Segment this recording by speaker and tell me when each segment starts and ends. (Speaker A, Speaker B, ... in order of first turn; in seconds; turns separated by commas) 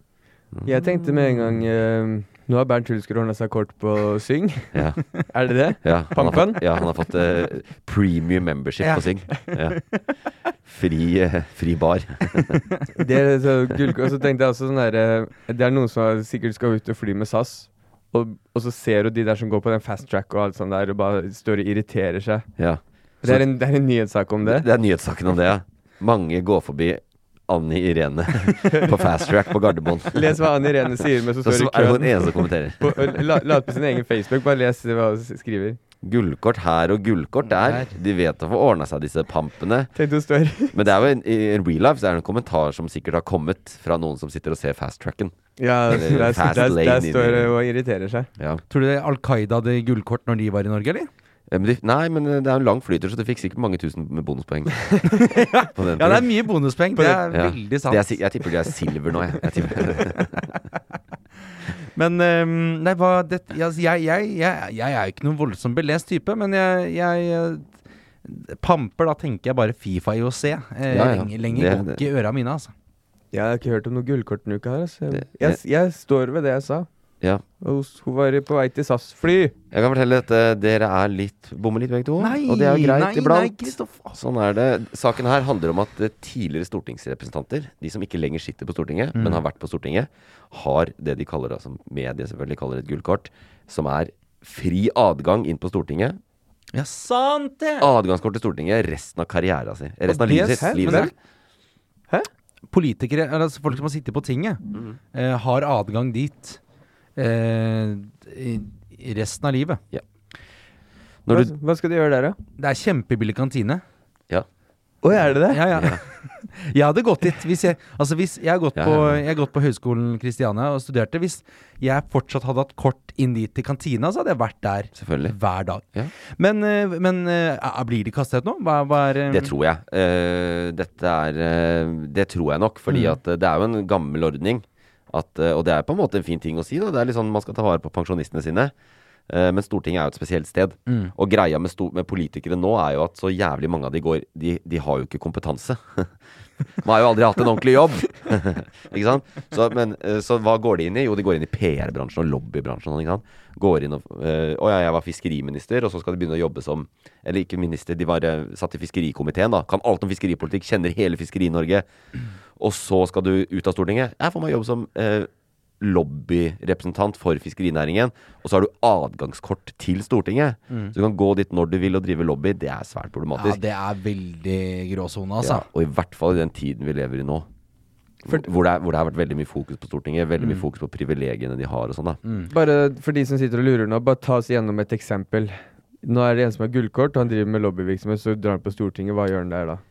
Speaker A: 0.6-6.8, Speaker B: 4.7-5.0, Speaker B: 5.8-9.8, Speaker C: 8.8-9.8, Speaker B: 10.6-12.6, Speaker A: 12.9-22.5, Speaker B: 22.6-23.5, Speaker A: 23.2-24.6, Speaker B: 24.4-30.4, Speaker A: 28.7-29.0, Speaker A: 30.1-35.8, Speaker B: 31.4-33.4, Speaker B: 36.0-39.9, Speaker C: 37.6-37.9, Speaker A: 39.9-40.8, Speaker B: 40.7-47.6, Speaker A: 45.6-48.3, Speaker C: 48.7-51.1, Speaker B: 51.5-55.0, Speaker C: 55.1-58.1, Speaker B: 55.7-56.3, Speaker B: 57.3-60.4, Speaker C: 61.9-67.7, Speaker C: 68.2-72.7, Speaker B: 70.9-72.0, Speaker A: 73.3-76.9, Speaker B: 75.1-75.6, Speaker A: 77.6-79.5, Speaker B: 79.7-96.2, Speaker C: 82.2-84.2, Speaker C: 89.1-89.4, Speaker C: 96.7-97.9, Speaker B: 97.8-101.1, Speaker C: 100.1-101.1, Speaker A: 100.6-101.1, Speaker C: 102.7-104.6, Speaker C: 105.1-106.6, Speaker C: 107.2-109.8, Speaker B: 111.2-111.5, Speaker A: 111.3-112.4, Speaker C: 112.6-113.8, Speaker A: 115.0-115.7, Speaker C: 115.5-129.5, Speaker B: 115.7-116.0, Speaker B: 118.8-119.2, Speaker B: 124.9-125.3, Speaker B: 129.3-138.7, Speaker C: 132.9-133.1, Speaker B: 139.3-146.1, Speaker B: 146.8-161.9, Speaker B: 162.6-165.3, Speaker B: 165.8-173.6, Speaker C: 173.4-175.7, Speaker B: 175.4-177.5, Speaker B: 178.2-182.2, Speaker C: 182.2-182.5, Speaker A: 182.5-189.8